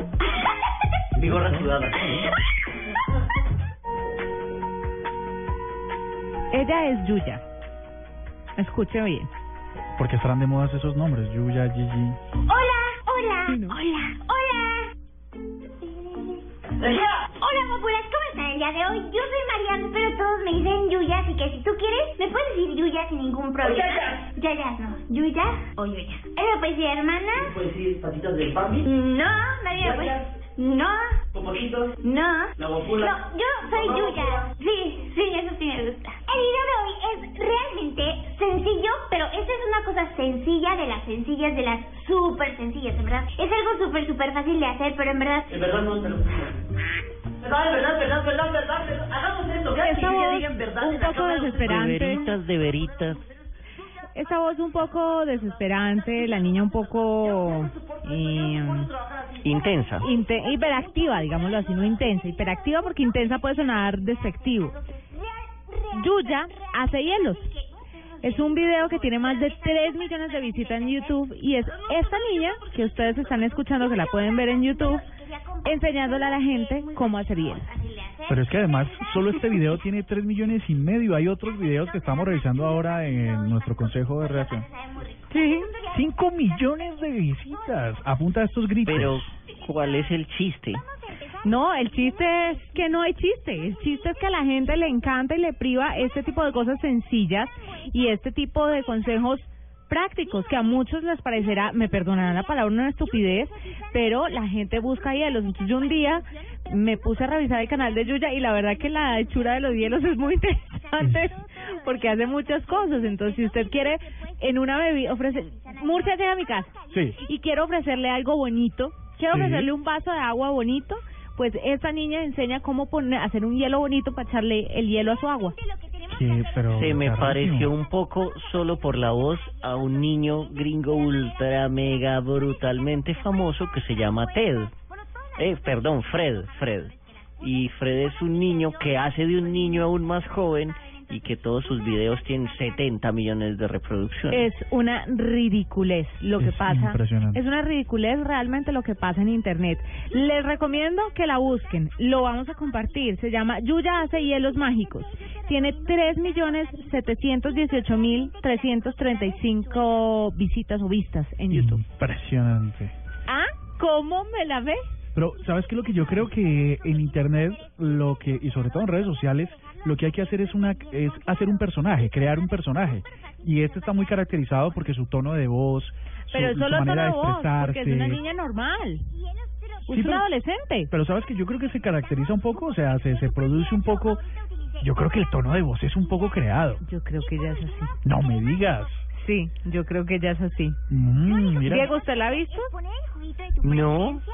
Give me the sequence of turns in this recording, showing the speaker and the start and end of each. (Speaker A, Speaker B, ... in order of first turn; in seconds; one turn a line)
Speaker A: 1.2-2.2
Speaker B: 1.3-1.7
Speaker C: 6.5-7.4
Speaker C: 8.6-9.3
Speaker B: 10.0-12.2
Speaker D: 12.5-14.9
Speaker C: 13.5-13.8
Speaker A: 16.8-17.3
Speaker D: 17.0-27.6
Speaker A: 23.6-24.3
Speaker A: 27.4-28.9
Speaker D: 28.8-31.2
Speaker A: 29.8-30.3
Speaker A: 31.3-31.9
Speaker D: 32.0-45.6
Speaker A: 32.6-33.2
Speaker A: 33.7-34.5
Speaker A: 45.5-46.5
Speaker A: 47.4-51.6
Speaker C: 49.8-52.4
Speaker E: 51.6-53.2
Speaker C: 54.1-58.9
Speaker E: 59.4-60.1
Speaker C: 60.0-64.8
Speaker D: 65.3-65.9
Speaker C: 65.9-67.5
Speaker C: 68.2-75.0
Speaker D: 68.2-70.9
Speaker D: 74.0-79.6
Speaker C: 75.6-77.7
Speaker B: 78.3-84.7
Speaker D: 82.5-86.4
Speaker C: 85.3-85.7
Speaker B: 85.8-89.3
Speaker E: 88.8-90.8
Speaker C: 91.4-125.6
Speaker B: 111.0-111.3
Speaker B: 116.9-117.2
Speaker B: 119.3-119.7
Speaker B: 126.1-127.7
Speaker E: 126.7-134.7
Speaker E: 135.4-144.5
Speaker C: 144.3-161.8
Speaker B: 146.4-147.4
Speaker B: 161.5-162.9
Speaker C: 163.3-164.8
Speaker B: 165.2-178.2
Speaker C: 176.3-179.1
Speaker C: 179.9-180.9
Speaker B: 179.9-180.2
Speaker B: 180.9-184.2
Speaker B: 184.8-186.8
Speaker C: 186.8-188.0
Speaker B: 188.0-189.0
Speaker C: 189.1-190.8
Speaker B: 190.9-191.9
Speaker C: 191.6-192.7
Speaker E: 193.6-194.2
Speaker D: 193.8-194.1